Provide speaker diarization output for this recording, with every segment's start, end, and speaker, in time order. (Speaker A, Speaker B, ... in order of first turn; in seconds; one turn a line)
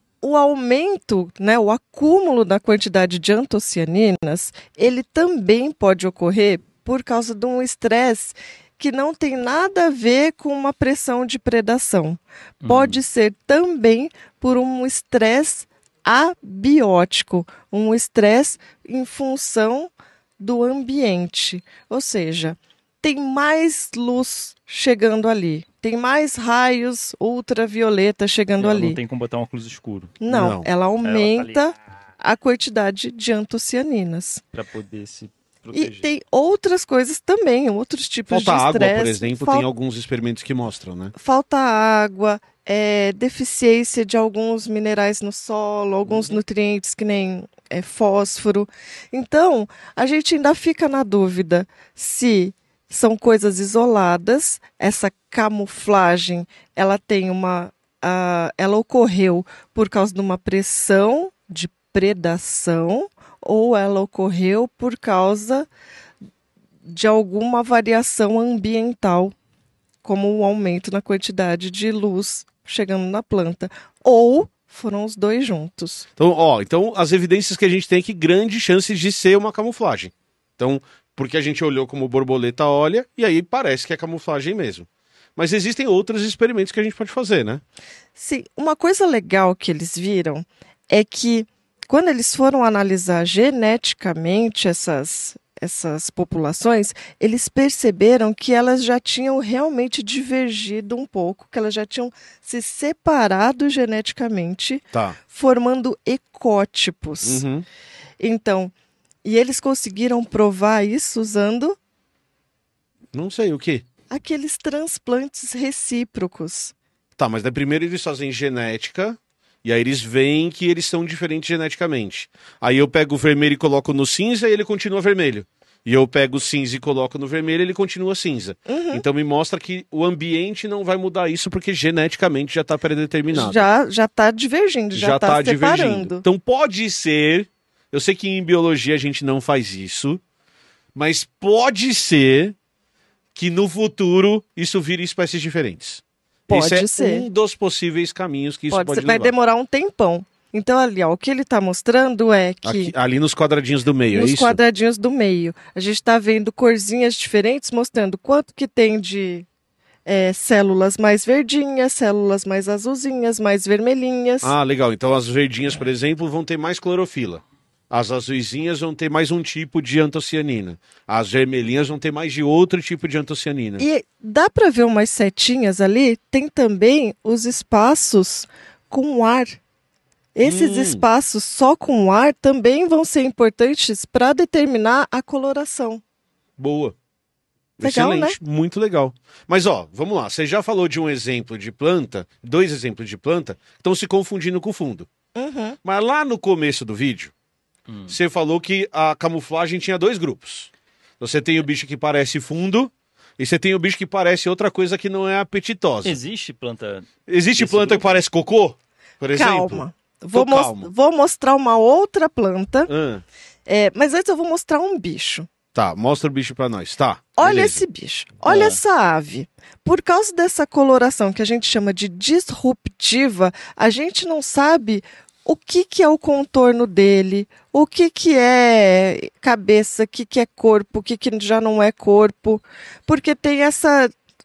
Speaker A: 0.2-29.0
Speaker B: 12.6-13.0
Speaker B: 28.6-30.2
Speaker A: 30.2-34.4
Speaker C: 30.3-30.7
Speaker B: 31.0-31.6
Speaker B: 34.5-36.1
Speaker A: 35.7-39.7
Speaker C: 38.3-41.1
Speaker A: 41.1-65.7
Speaker A: 66.8-69.3
Speaker A: 70.0-76.1
Speaker C: 76.2-87.6
Speaker A: 88.2-107.4
Speaker C: 107.2-107.7
Speaker A: 108.2-108.7
Speaker A: 109.2-111.8
Speaker C: 113.1-113.8
Speaker A: 114.1-116.7
Speaker C: 117.2-133.7
Speaker A: 128.7-129.0
Speaker A: 133.3-136.2
Speaker C: 134.9-140.2
Speaker C: 140.9-142.5
Speaker C: 143.3-149.3
Speaker A: 146.5-147.3
Speaker A: 148.7-152.9
Speaker C: 152.6-154.6
Speaker A: 154.1-159.4
Speaker A: 160.1-164.5
Speaker C: 164.4-173.8
Speaker A: 173.8-179.6
Speaker A: 180.3-186.0
Speaker C: 180.4-181.0
Speaker C: 186.6-186.9
Speaker C: 187.8-195.1
Speaker A: 187.8-188.4
Speaker A: 195.3-195.8
Speaker C: 195.8-197.3
Speaker B: 197.9-198.2
Speaker C: 198.1-206.2
Speaker B: 206.0-208.2
Speaker C: 207.3-210.9
Speaker A: 209.3-212.9
Speaker C: 212.9-213.2
Speaker A: 213.7-215.5
Speaker C: 215.7-217.8
Speaker A: 217.4-234.1
Speaker B: 218.5-218.8